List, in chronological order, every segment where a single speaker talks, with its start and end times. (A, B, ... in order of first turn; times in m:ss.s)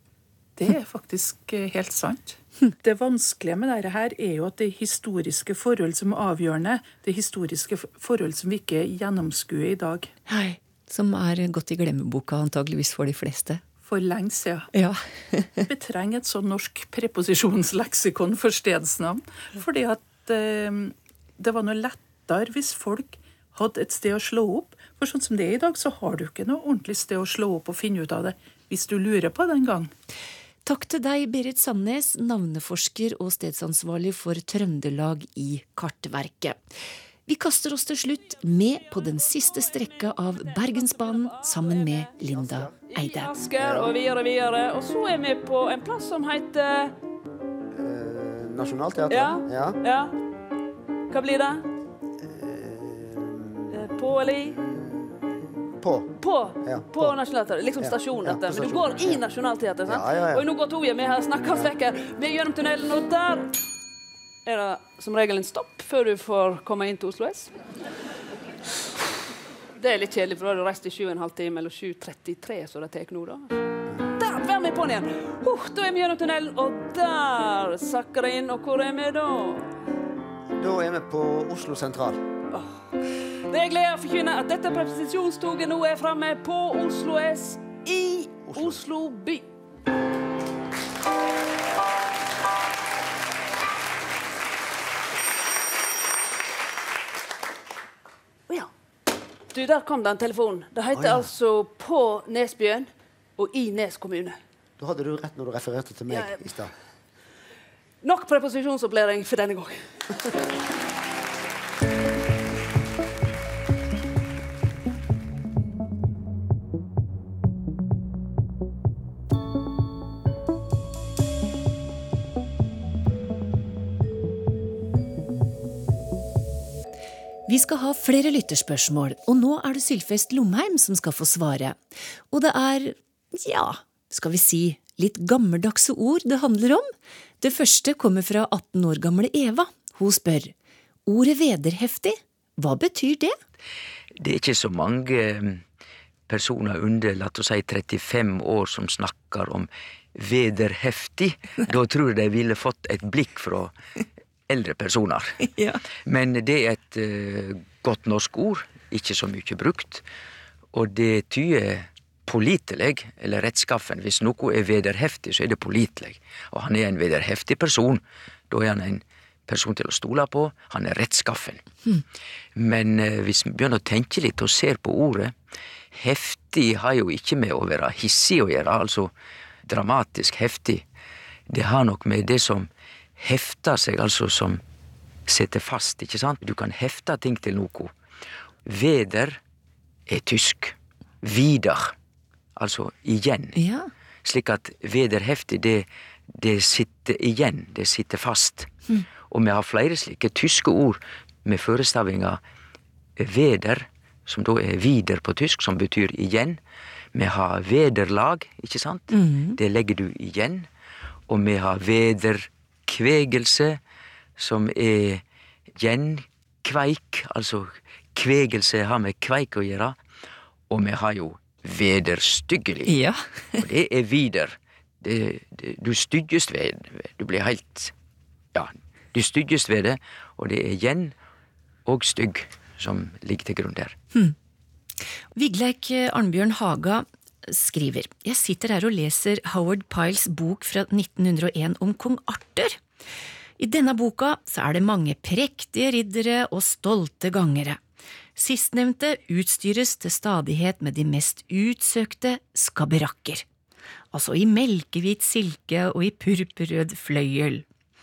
0:00.6-0:10.1 A
0:10.3-0:13.6 B
0:13.8-0:14.7 A
0:14.7-0:15.7 B
0:15.7-0:29.9 A
0:30.6-0:36.6 B
0:37.3-0:43.4 B
0:41.1-0:42.1 C
0:42.3-0:42.8 D
0:42.8-0:47.0 C
0:43.6-0:43.9 D
0:47.7-0:49.8 D
0:49.1-0:50.1 C
0:51.1-0:51.7 C
0:52.2-0:53.9 D
0:53.7-0:54.6 C
0:54.5-0:57.2 D
0:56.2-1:03.5 C
0:57.8-0:59.2 D
0:59.9-1:00.5 D
1:04.4-1:07.5 C
1:09.8-1:13.5 C
1:14.2-1:19.7 C
1:20.6-1:22.2 D
1:23.5-1:29.4 C
1:28.5-1:28.8 D
1:39.5-1:44.4 C
1:40.9-1:41.3 D
1:44.8-1:46.7 D
1:46.1-1:46.4 C
1:48.0-1:49.8 C
2:07.5-2:11.8 B
2:12.3-2:16.9 B
2:17.4-2:20.5 B
2:21.1-2:23.4 B
2:24.2-2:25.6 E
2:26.3-2:33.8 E
2:34.5-2:35.5 E
2:35.5-2:35.8 B
2:36.0-2:40.0 E
2:40.7-2:51.6 E
2:52.6-2:55.4 E
2:55.9-2:59.1 E
2:59.7-3:00.8 E
3:01.5-3:04.6 E
3:05.3-3:07.9 E
3:08.7-3:09.4 E
3:10.1-3:11.9 E
3:12.6-3:13.6 E
3:13.6-3:13.9 B
3:14.2-3:18.7 E
3:19.3-3:22.4 E
3:23.2-3:26.6 E
3:27.1-3:30.7 E
3:29.1-3:29.6 B
3:31.3-3:33.8 E
3:34.4-3:35.2 E
3:35.8-3:40.0 E
3:40.7-3:42.9 E
3:42.9-3:43.6 B
3:43.6-3:47.9 E
3:48.5-3:51.2 E
3:51.8-3:54.0 E
3:55.4-4:02.8 B
4:03.6-4:07.8 B
4:08.4-4:13.4 B
4:14.1-4:17.6 B